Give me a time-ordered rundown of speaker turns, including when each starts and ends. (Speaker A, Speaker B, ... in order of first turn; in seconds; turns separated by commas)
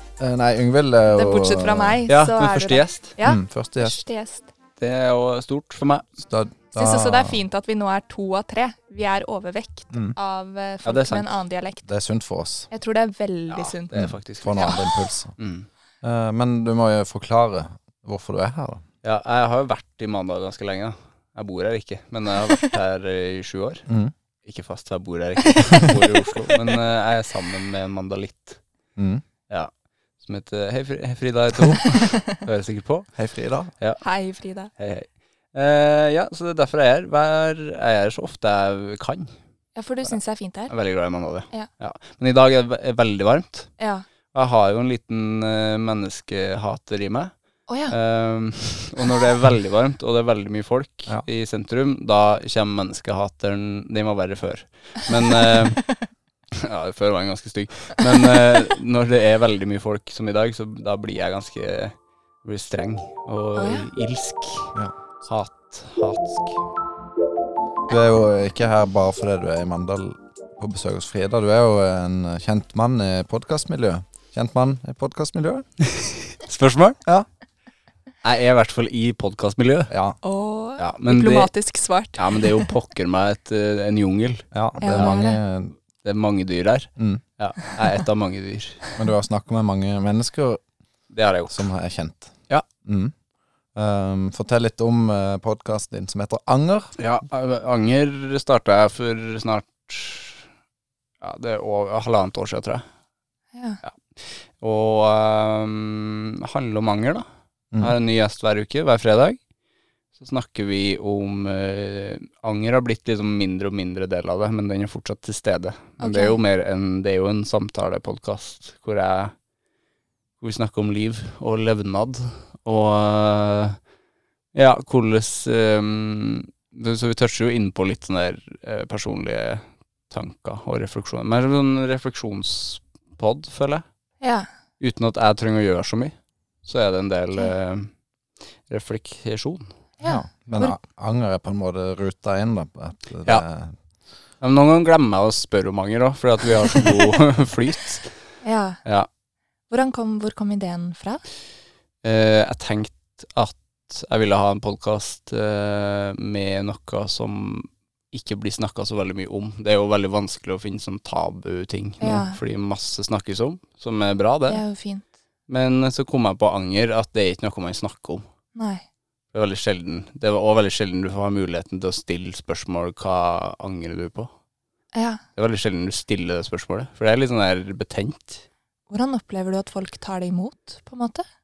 Speaker A: 0.2-2.0, Speaker B: 1.1-4.5, Speaker C: 2.1-3.1, Speaker A: 3.2-4.0, Speaker C: 4.8-6.0, Speaker A: 6.2-7.4, Speaker B: 6.7-11.9, Speaker C: 10.8-11.4, Speaker A: 11.9-12.7, Speaker B: 12.7-15.1, Speaker C: 13.5-14.8, Speaker A: 13.9-15.3, Speaker C: 15.4-15.7, Speaker A: 16.0-18.8, Speaker C: 19.0-23.9, Speaker A: 23.9-24.1, Speaker C: 24.4-28.6, Speaker A: 29.0-29.2, Speaker C: 29.5-33.1, Speaker B: 31.9-32.2, Speaker A: 33.1-33.7, Speaker B: 34.0-34.7, Speaker C: 34.8-39.3, Speaker B: 39.7-40.7, Speaker C: 40.7-43.7, Speaker B: 43.8-44.0, Speaker C: 44.3-47.3, Speaker B: 47.7-47.9, Speaker C: 47.9-55.8, Speaker C: 56.5-66.6, Speaker B: 63.5-63.9, Speaker A: 67.9-75.7, Speaker C: 75.8-77.0, Speaker C: 78.2-79.9, Speaker A: 79.9-80.2, Speaker B: 80.2-82.7, Speaker C: 80.8-81.5, Speaker C: 82.2-85.2, Speaker A: 84.5-85.7, Speaker B: 84.8-85.4, Speaker C: 86.0-88.9, Speaker A: 87.0-87.2, Speaker A: 89.0-90.6, Speaker C: 91.1-91.7, Speaker A: 91.5-92.3, Speaker A: 92.8-93.1, Speaker A: 93.7-96.9, Speaker C: 97.0-100.5, Speaker C: 101.2-102.8, Speaker B: 103.5-103.8, Speaker C: 103.8-107.2, Speaker C: 107.8-109.4, Speaker C: 110.2-119.3, Speaker B: 116.0-116.4, Speaker C: 120.4-123.8, Speaker C: 124.5-133.8, Speaker B: 134.2-134.5, Speaker C: 134.8-137.9, Speaker C: 138.7-139.7, Speaker B: 140.0-140.7, Speaker A: 140.0-143.7, Speaker C: 144.4-148.2, Speaker B: 148.4-148.8, Speaker B: 149.7-151.2, Speaker C: 152.0-164.6, Speaker B: 162.0-162.4, Speaker B: 164.5-165.0, Speaker C: 165.5-168.3, Speaker B: 168.5-168.8, Speaker C: 169.3-174.3, Speaker B: 174.9-175.2, Speaker C: 175.3-178.4, Speaker B: 178.9-181.2